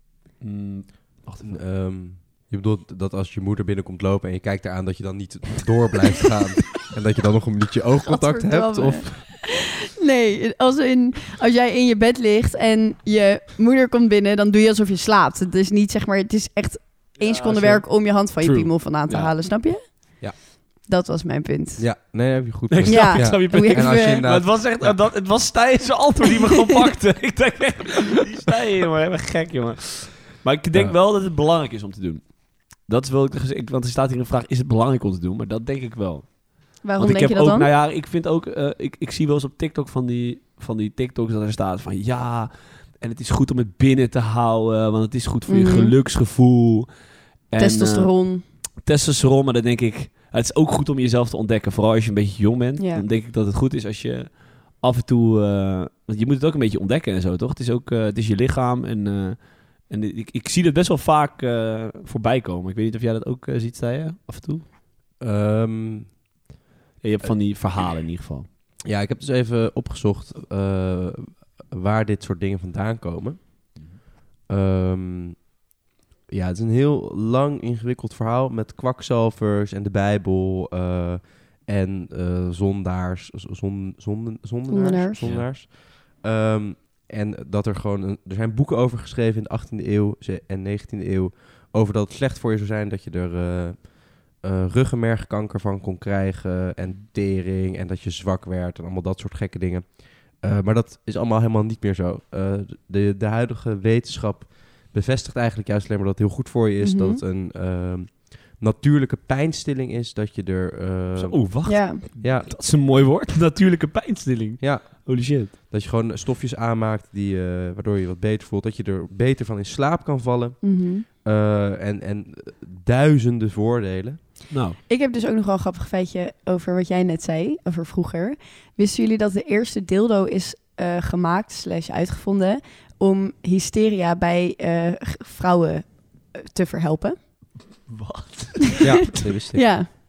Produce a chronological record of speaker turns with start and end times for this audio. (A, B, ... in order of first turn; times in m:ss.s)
0:00.4-0:01.6 A
0:01.4-0:09.2 B
0:08.1-0:21.9 C
0:17.2-0:19.3 A
0:21.8-0:25.1 B
0:22.7-1:04.6 A
0:22.9-0:24.3 C
0:36.8-0:37.7 C
0:45.5-0:45.9 C
0:47.6-0:48.4 C
0:52.8-0:53.0 C
1:05.2-1:06.2 B
1:07.0-1:08.5 A
1:08.8-1:13.9 B
1:14.5-1:15.6 B
1:16.3-1:51.6 B
1:24.7-1:25.3 C
1:25.2-1:25.5 A
1:46.8-1:47.2 C
1:51.2-1:55.5 A
1:51.6-1:52.0 C
1:52.2-1:52.6 B
1:54.6-2:04.2 B
2:00.6-2:01.1 C
2:04.5-2:04.8 A
2:04.9-2:17.2 C
2:17.9-2:18.8 A
2:18.8-2:19.7 B
2:19.5-2:19.9 C